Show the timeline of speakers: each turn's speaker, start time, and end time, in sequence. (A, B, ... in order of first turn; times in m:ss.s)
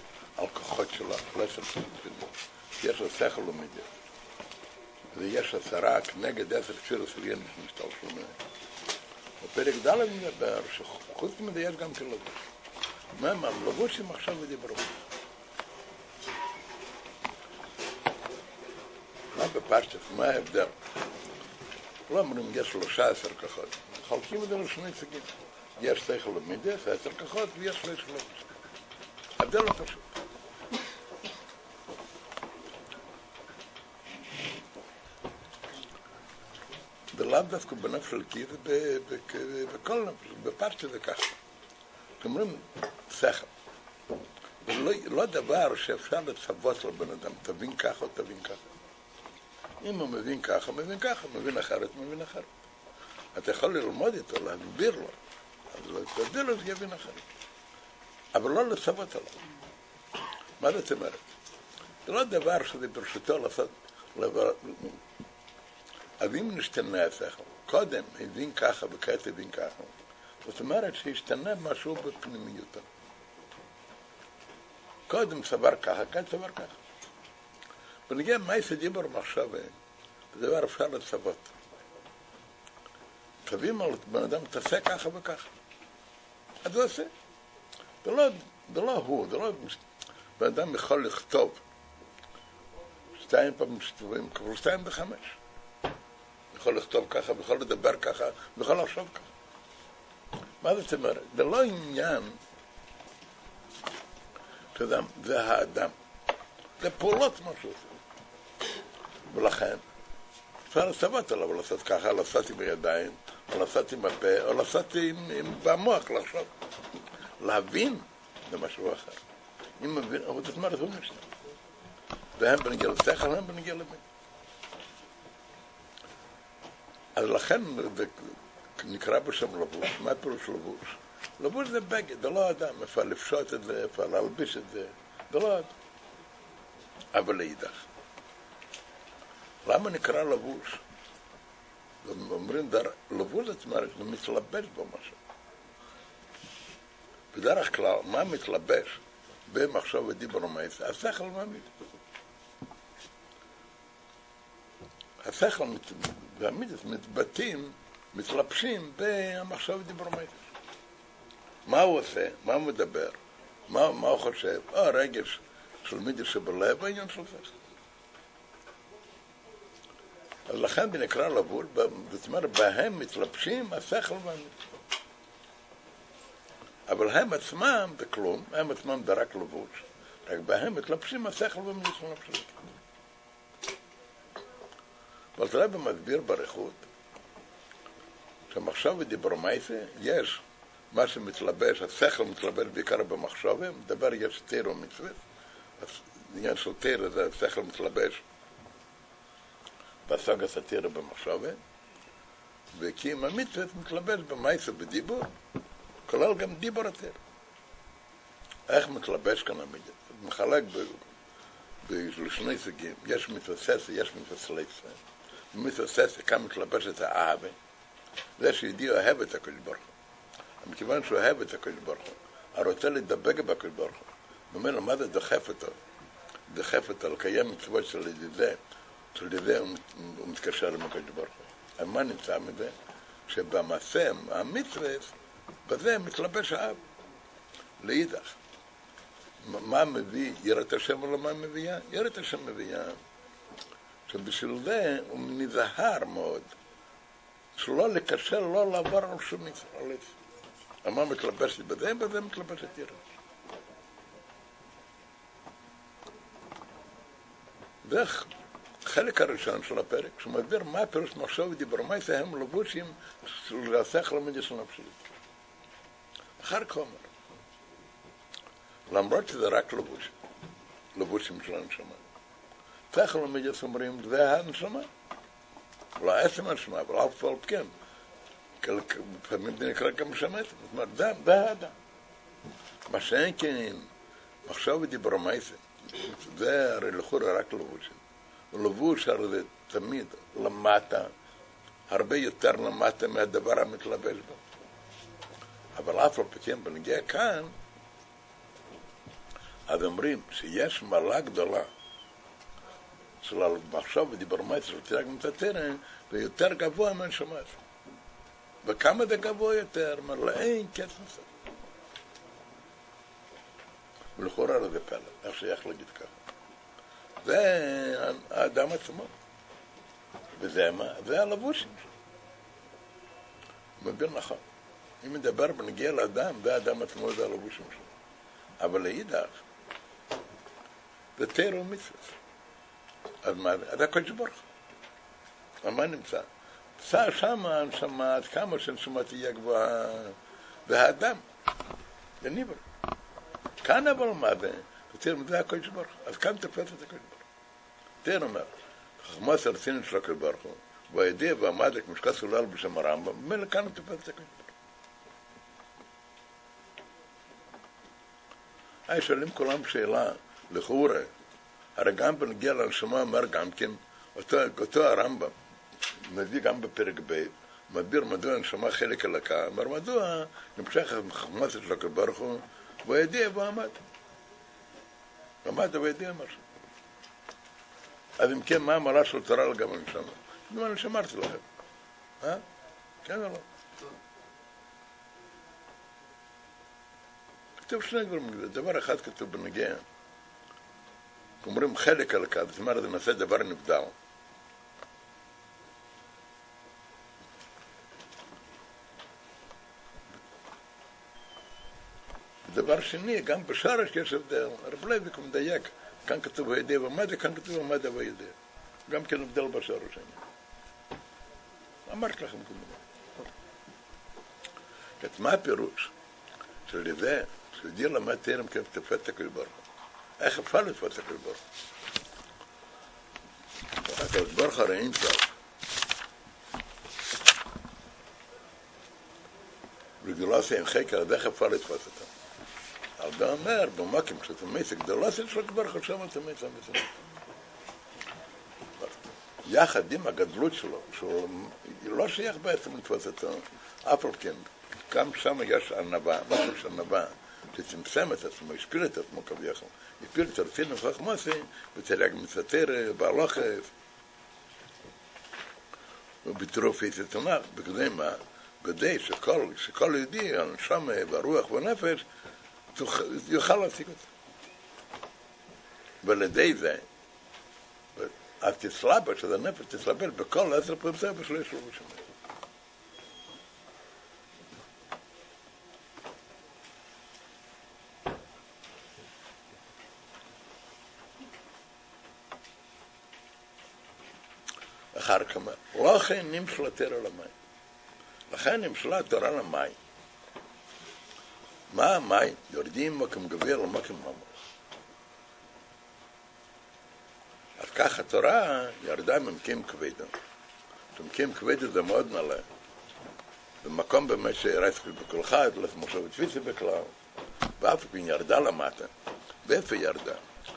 0:00.4-0:03.9 A
0:05.1-0:08.3 A
0:09.4-0:12.4 A
0:13.1-0:15.0 A
0:19.3-0:20.7 A
0:22.1-0:28.4 A
0:29.4-0:30.1 A
0:37.1-0:41.3 A
0:42.2-0:43.5 A
0:44.6-0:48.6 A
0:49.8-0:52.5 A
0:53.3-0:55.2 A
0:55.7-0:57.2 A
0:58.3-0:59.3 A
1:00.6-1:01.2 A
1:02.0-1:05.0 A
1:06.2-1:09.9 A
1:10.4-1:12.9 A
1:15.1-1:16.7 A
1:18.1-1:19.7 A
1:20.3-1:21.5 A
1:23.4-1:25.5 A
1:26.6-1:27.1 A
1:28.0-1:29.8 A
1:30.4-1:31.6 A
1:33.2-1:35.4 A
1:36.5-1:39.3 A
1:40.6-1:42.4 A
1:44.7-1:45.9 A
1:46.8-1:47.9 A
1:49.3-1:49.8 A
1:50.7-1:56.5 A
1:57.4-1:59.2 A
1:59.8-2:01.2 A
2:02.4-2:04.0 A
2:07.1-2:15.7 A
2:17.1-2:17.8 A
2:19.6-2:20.8 A
2:22.0-2:25.2 A
2:27.3-2:31.7 A
2:35.2-2:40.4 A
2:41.6-2:43.2 A
2:43.7-2:47.5 A
2:50.5-2:54.5 A
2:56.9-3:02.5 A
3:05.4-3:06.8 A
3:08.5-3:15.2 A
3:15.8-3:18.2 A
3:20.0-3:21.6 A
3:22.7-3:25.3 A
3:26.1-3:27.2 A
3:28.7-3:31.1 A
3:31.8-3:35.0 A
3:35.5-3:37.6 A
3:38.4-3:39.9 A
3:40.6-3:45.8 A
3:46.5-3:48.6 A
3:49.1-3:52.7 A
3:53.3-3:55.1 A
3:55.6-3:56.8 A
3:57.8-3:58.4 A
3:59.4-4:03.0 A
4:04.1-4:06.5 A
4:07.6-4:10.1 A
4:10.8-4:13.0 A
4:17.8-4:18.3 A
4:18.8-4:25.0 A
4:26.4-4:27.1 A
4:28.9-4:30.1 A
4:30.9-4:32.0 A
4:32.9-4:34.9 A
4:36.0-4:37.7 A
4:38.6-4:41.7 A
4:42.9-4:43.9 A
4:44.4-4:48.0 A
4:48.5-4:51.1 A
4:51.9-4:54.4 A
4:55.7-4:57.5 A
4:59.7-5:01.7 A
5:03.2-5:07.6 A
5:08.6-5:11.3 A
5:14.2-5:16.2 A
5:17.2-5:19.1 A
5:20.4-5:21.9 A
5:23.8-5:24.4 A
5:25.0-5:27.9 A
5:28.6-5:29.4 A
5:31.2-5:32.1 A
5:33.2-5:34.4 A
5:35.6-5:36.3 A
5:36.8-5:40.2 A
5:40.7-5:41.2 A
5:42.2-5:42.6 A
5:43.6-5:47.2 A
5:48.0-5:54.5 A
5:58.9-6:01.1 A
6:01.8-6:05.3 A
6:06.0-6:13.8 A
6:15.4-6:16.4 A
6:18.2-6:21.4 A
6:23.0-6:23.4 A
6:27.6-6:29.8 A
6:31.4-6:33.9 A
6:42.5-6:48.3 A
6:48.9-6:50.2 A
6:51.8-6:52.8 A
6:55.0-6:55.9 A
6:56.7-6:59.6 A
7:00.2-7:01.4 A
7:03.8-7:05.3 A
7:10.0-7:12.1 A
7:13.0-7:16.9 A
7:18.8-7:33.7 A
7:36.2-7:42.0 A
7:42.7-7:44.1 A
7:46.0-7:46.8 A
7:48.0-7:52.0 A
8:04.9-8:07.3 A
8:08.3-8:09.8 A
8:11.7-8:14.3 A
8:17.6-8:20.1 A
8:20.9-8:22.4 A
8:23.6-8:26.9 A
8:27.6-8:28.9 A
8:29.4-8:30.2 A